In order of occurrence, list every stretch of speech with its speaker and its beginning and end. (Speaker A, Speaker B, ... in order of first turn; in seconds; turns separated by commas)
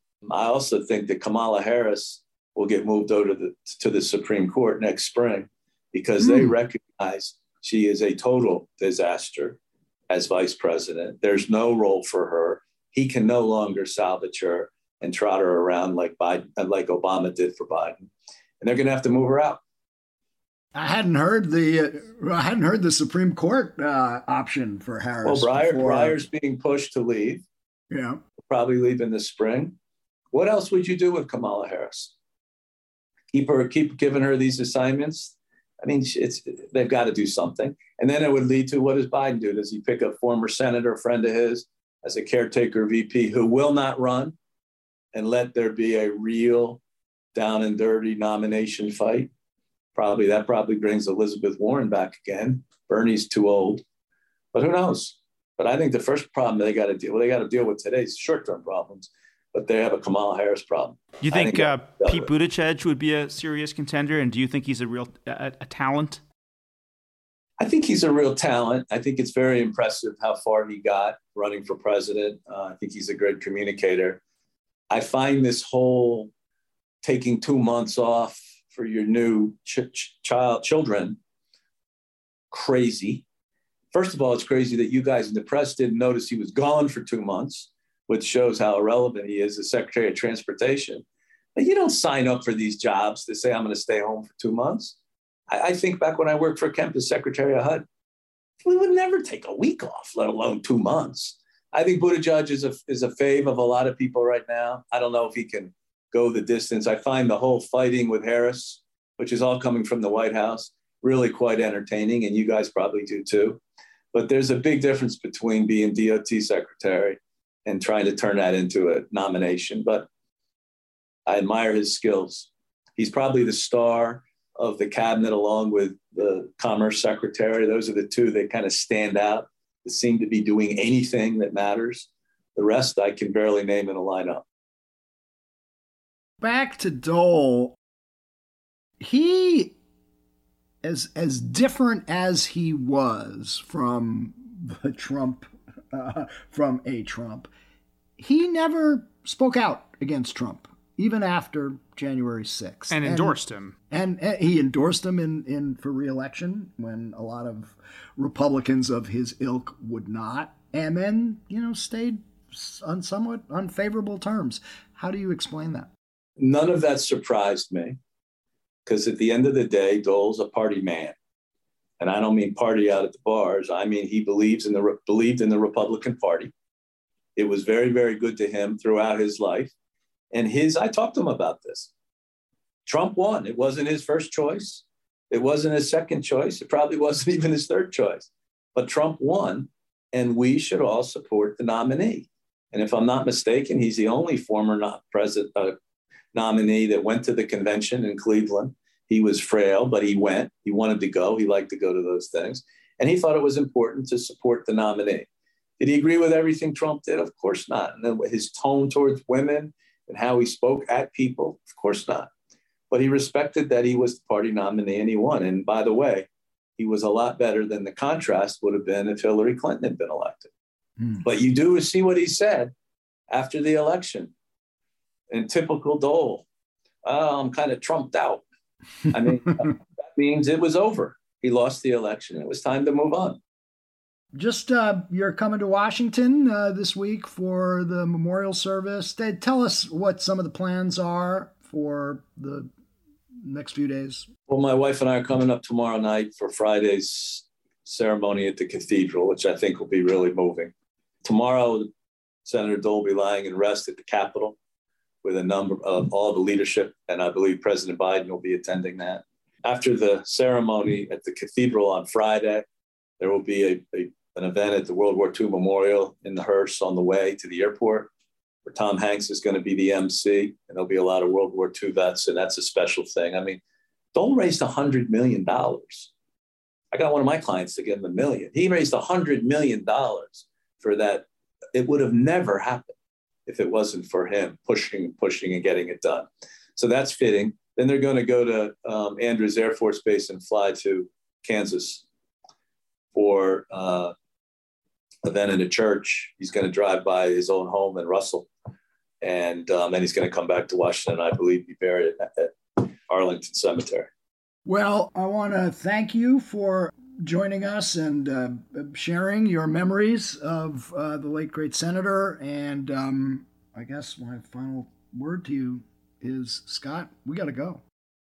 Speaker A: 0.2-9.6, Speaker B: 6.2-6.5, Speaker A: 10.1-18.1, Speaker A: 18.6-19.6, Speaker B: 20.7-26.2, Speaker A: 25.2-27.4, Speaker B: 27.9-28.2, Speaker A: 28.5-29.7, Speaker A: 30.3-32.1, Speaker A: 33.3-44.3, Speaker A: 45.1-46.8, Speaker A: 47.3-49.3, Speaker A: 49.9-53.8, Speaker A: 54.5-62.3, Speaker C: 61.2-66.2, Speaker A: 67.6-74.2, Speaker A: 74.9-76.3, Speaker A: 77.0-81.2, Speaker A: 82.5-83.2, Speaker A: 83.9-91.0, Speaker A: 91.5-95.0, Speaker A: 95.5-97.8, Speaker A: 98.6-113.6, Speaker A: 114.1-120.1, Speaker A: 121.2-134.4, Speaker B: 136.4-137.7, Speaker B: 139.0-139.7, Speaker B: 140.8-147.5, Speaker B: 148.2-153.4, Speaker C: 152.9-153.7, Speaker B: 153.9-165.9, Speaker A: 166.4-168.0, Speaker A: 168.8-171.1, Speaker A: 172.0-176.5, Speaker A: 177.3-179.7, Speaker A: 180.3-181.9, Speaker A: 182.8-195.7, Speaker A: 196.3-205.3, Speaker A: 205.8-212.3, Speaker A: 212.9-216.3, Speaker A: 216.8-220.5, Speaker A: 221.2-222.7, Speaker A: 223.3-224.3, Speaker A: 225.3-226.4, Speaker A: 227.0-228.4, Speaker A: 229.1-233.4, Speaker B: 234.3-242.7, Speaker B: 243.4-244.3, Speaker A: 244.5-250.7, Speaker A: 251.2-251.9, Speaker A: 252.4-254.6, Speaker A: 255.2-262.6, Speaker A: 263.2-268.1, Speaker A: 268.6-273.6, Speaker A: 274.1-276.1, Speaker A: 276.9-282.9, Speaker A: 283.5-292.0, Speaker A: 293.1-294.1, Speaker A: 295.2-298.5, Speaker A: 299.2-304.1, Speaker B: 304.6-317.8